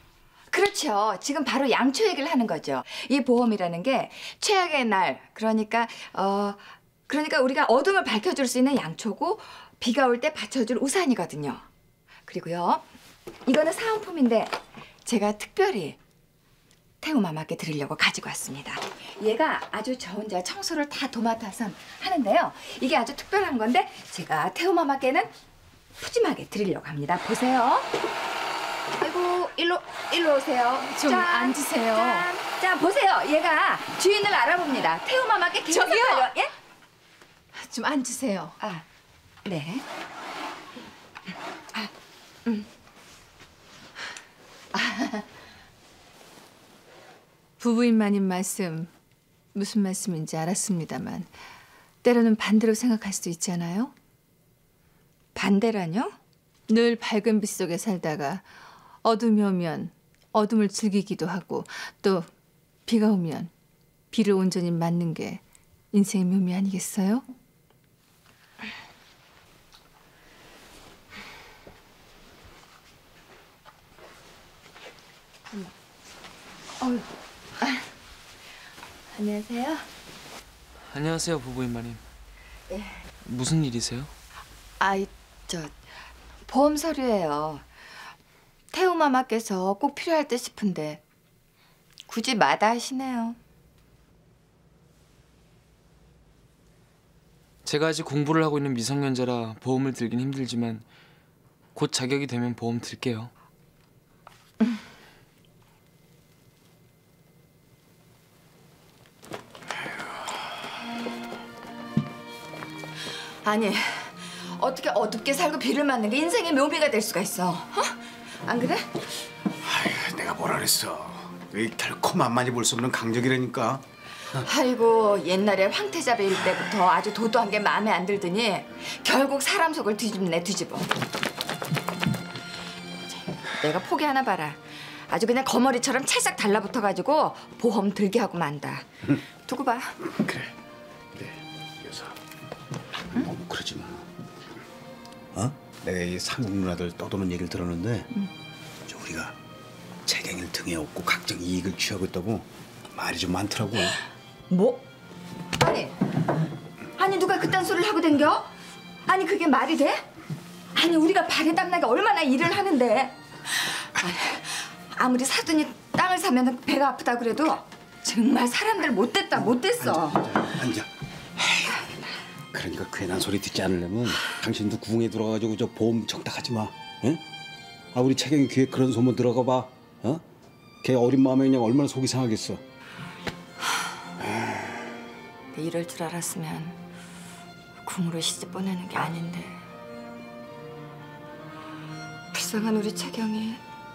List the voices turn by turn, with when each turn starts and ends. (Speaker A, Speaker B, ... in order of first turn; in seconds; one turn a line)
Speaker A: 0.5-11.6
Speaker A: 12.3-12.8
Speaker A: 13.5-16.0
Speaker A: 17.0-25.3
Speaker A: 26.0-27.9
Speaker A: 29.0-36.5
Speaker B: 30.9-32.3
Speaker B: 35.7-36.3
Speaker B: 37.6-38.6
Speaker A: 39.5-39.8
Speaker B: 44.9-45.1
Speaker B: 47.6-48.9
Speaker B: 49.5-51.3
Speaker B: 52.0-53.9
Speaker A: 55.4-56.1
Speaker B: 56.7-58.5
Speaker B: 59.0-62.3
Speaker B: 62.9-63.5
Speaker B: 64.1-67.2
Speaker A: 76.8-77.1
Speaker A: 79.1-79.9
Speaker C: 80.9-82.0
Speaker A: 82.7-83.0
Speaker C: 83.2-84.1
Speaker A: 84.8-85.7
Speaker A: 86.5-87.6
Speaker A: 88.7-91.0
Speaker A: 92.1-93.4
Speaker C: 97.6-100.9
Speaker C: 101.7-103.3
Speaker A: 113.4-119.0
Speaker D: 119.6-123.8
Speaker A: 124.4-130.9
Speaker A: 133.4-140.0
Speaker D: 140.2-140.5
Speaker D: 141.1-142.2
Speaker D: 143.1-144.1
Speaker D: 145.3-148.1
Speaker D: 148.9-149.4
Speaker D: 150.1-154.0
Speaker A: 154.5-154.8
Speaker A: 155.6-156.1
Speaker A: 157.0-158.5
Speaker A: 159.1-160.0
Speaker A: 160.7-170.4
Speaker D: 169.8-171.8
Speaker D: 172.5-177.2
Speaker D: 177.9-180.2
Speaker D: 180.8-182.6
Speaker A: 185.5-186.8
Speaker A: 187.8-189.6
Speaker A: 192.3-193.6